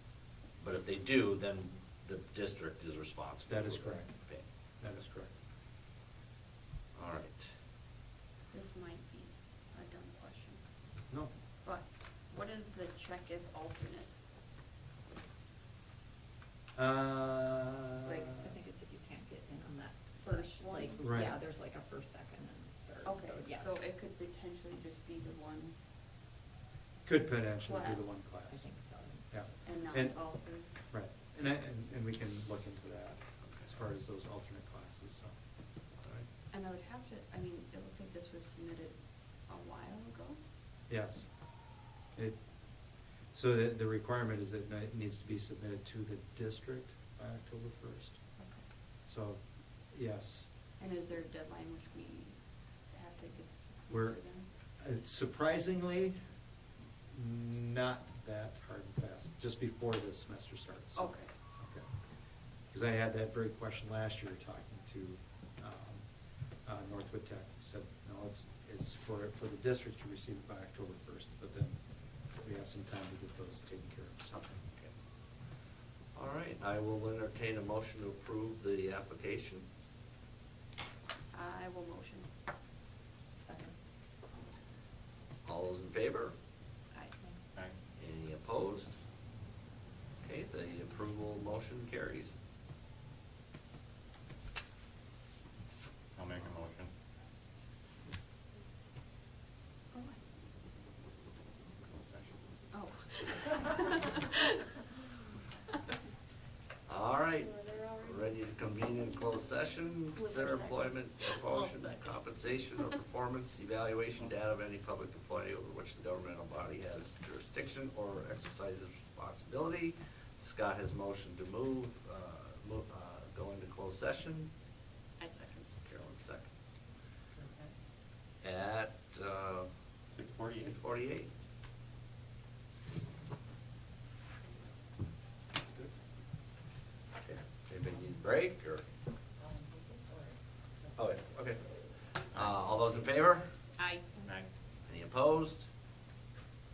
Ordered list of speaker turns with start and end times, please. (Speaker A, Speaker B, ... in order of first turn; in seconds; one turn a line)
Speaker A: 0.6-4.4
Speaker B: 3.5-4.1
Speaker B: 4.8-5.3
Speaker A: 6.9-7.4
Speaker C: 8.5-10.6
Speaker C: 11.6-14.1
Speaker B: 16.8-18.5
Speaker D: 18.0-23.7
Speaker C: 20.2-21.1
Speaker B: 21.0-21.4
Speaker C: 23.0-25.7
Speaker B: 27.0-28.7
Speaker C: 27.6-28.3
Speaker D: 28.4-29.5
Speaker B: 29.3-35.3
Speaker C: 29.6-30.7
Speaker A: 33.4-33.7
Speaker A: 36.0-36.2
Speaker C: 36.5-40.4
Speaker B: 40.9-48.2
Speaker C: 48.4-48.6
Speaker B: 49.0-50.5
Speaker C: 50.8-54.5
Speaker B: 53.9-54.2
Speaker B: 54.8-56.2
Speaker B: 57.1-62.0
Speaker C: 60.9-61.3
Speaker B: 62.6-74.5
Speaker A: 76.1-79.7
Speaker C: 81.3-82.3
Speaker D: 83.4-83.8
Speaker A: 85.4-86.3
Speaker A: 88.0-88.9
Speaker A: 90.2-92.3
Speaker E: 96.1-96.9
Speaker C: 99.9-100.2
Speaker E: 101.8-102.4
Speaker C: 102.7-104.6
Speaker A: 106.8-124.5
Speaker C: 107.4-109.3
Speaker C: 110.1-112.2
Speaker C: 125.2-125.7
Speaker A: 125.8-126.5
Speaker A: 128.4-129.7
Speaker E: 130.1-130.8
Speaker A: 130.6-131.3
Speaker A: 137.2-138.8
Speaker A: 140.9-143.4
Speaker E: 142.3-142.6
Speaker C: 143.8-144.2
Speaker E: 144.2-144.5
Speaker A: 144.9-145.7